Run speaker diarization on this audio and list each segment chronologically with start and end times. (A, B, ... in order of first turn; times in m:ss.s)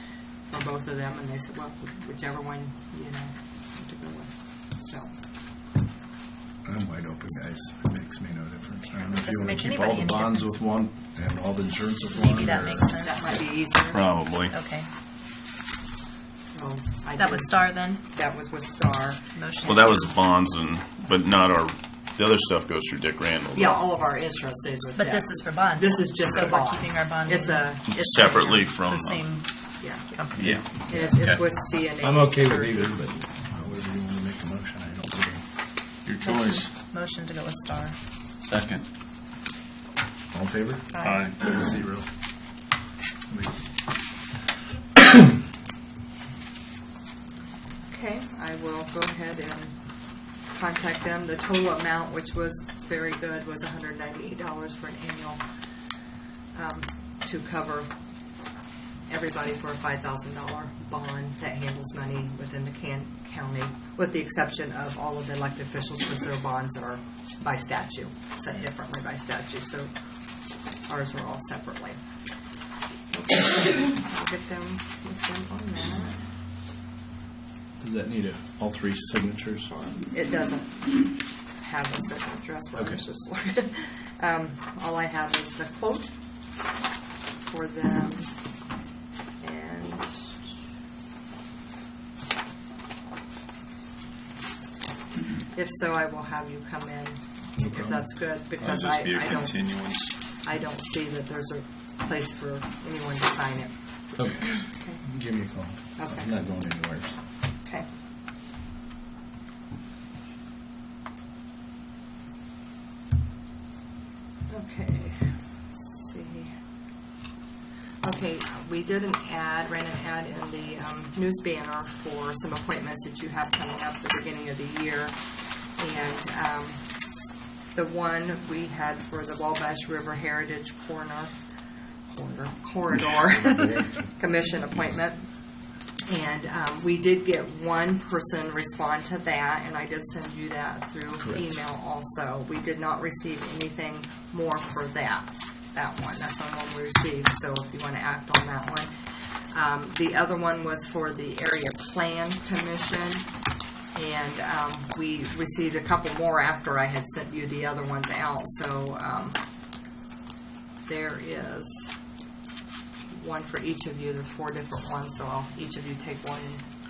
0:00.4-0:05.1 A
0:06.6-0:12.9 B
0:09.0-0:10.6 C
0:12.1-0:13.3 C
0:13.0-0:14.1 A
0:13.9-0:14.5 D
0:14.4-0:14.9 C
0:16.5-0:19.2 A
0:17.2-0:18.0 C
0:19.3-0:20.1 C
0:19.6-0:23.8 D
0:23.5-0:28.7 A
0:25.0-0:30.5 C
0:27.9-0:29.3 D
0:29.7-0:32.9 A
0:30.4-0:30.7 D
0:30.9-0:35.4 B
0:36.0-0:36.6 D
0:36.2-0:38.0 C
0:38.5-0:38.8 D
0:40.3-0:42.1 B
0:40.9-0:41.3 C
0:41.0-0:41.3 D
0:43.3-0:43.6 B
0:47.9-0:49.8 A
0:50.5-0:55.4 A
0:56.5-0:57.9 A
0:59.1-1:09.9 A
1:10.9-1:12.0 A
1:13.1-1:16.2 A
1:17.8-1:19.7 B
1:19.8-1:26.1 A
1:22.8-1:23.0 B
1:27.4-1:28.3 A
1:29.4-1:30.3 A
1:35.5-1:43.7 A
1:37.6-1:38.1 B
1:38.6-1:40.1 D
1:44.2-1:47.2 B
1:44.4-1:45.0 A
1:46.0-1:46.3 A
1:54.5-1:56.5 A
1:58.0-2:05.2 A
2:05.8-2:07.0 A
2:07.7-2:11.3 A
2:12.1-2:15.3 A
2:16.1-2:28.9 A
2:21.2-2:21.5 B
2:29.5-2:33.2 A
2:33.9-2:39.4 A
2:40.9-2:41.9 A
2:43.1-2:46.6 A